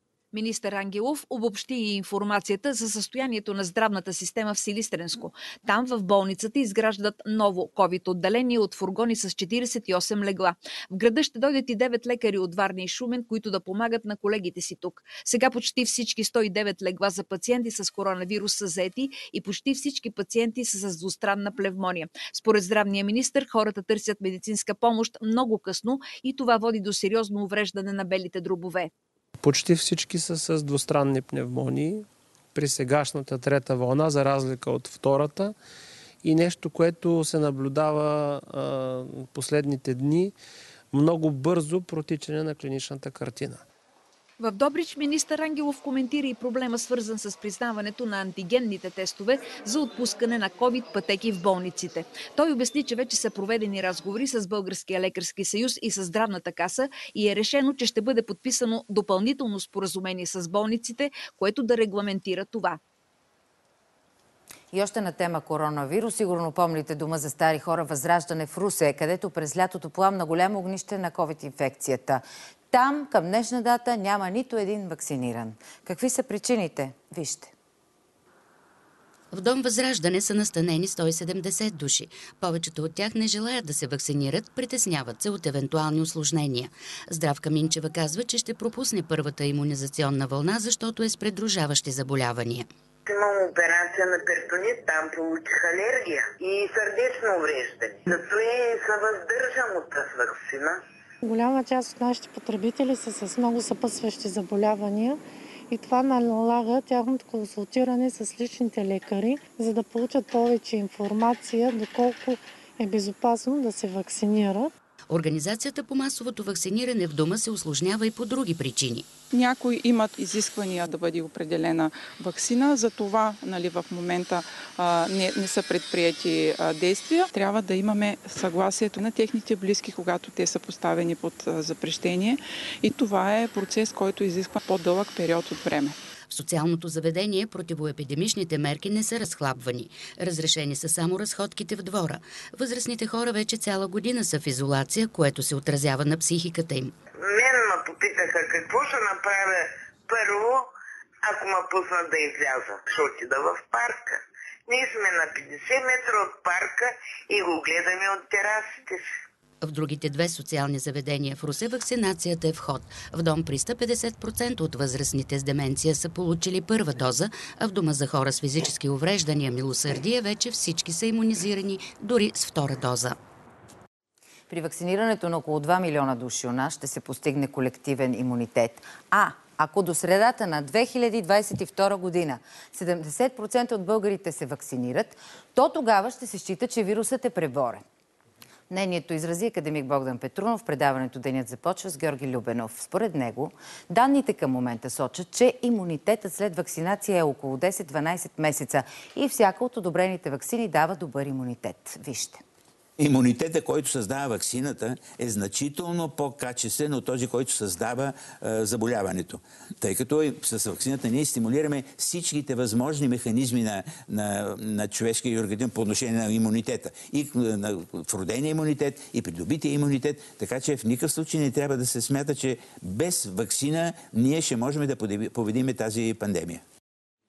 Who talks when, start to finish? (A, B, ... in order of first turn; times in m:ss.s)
0:00.3-0:28.9 A
0:29.4-0:35.6 B
0:36.2-0:40.3 B
0:40.9-0:43.6 B
0:44.4-1:02.8 A
1:04.7-1:17.5 C
1:19.3-1:32.7 D
1:33.0-1:40.8 E
1:41.2-1:54.7 F
1:55.1-1:59.1 D
1:59.3-2:15.9 G
2:16.3-2:26.9 D
2:27.2-2:30.7 E
2:31.2-2:39.1 E
2:39.6-2:53.2 D
2:54.5-3:07.8 C
3:08.7-3:22.4 C
3:23.0-3:46.6 H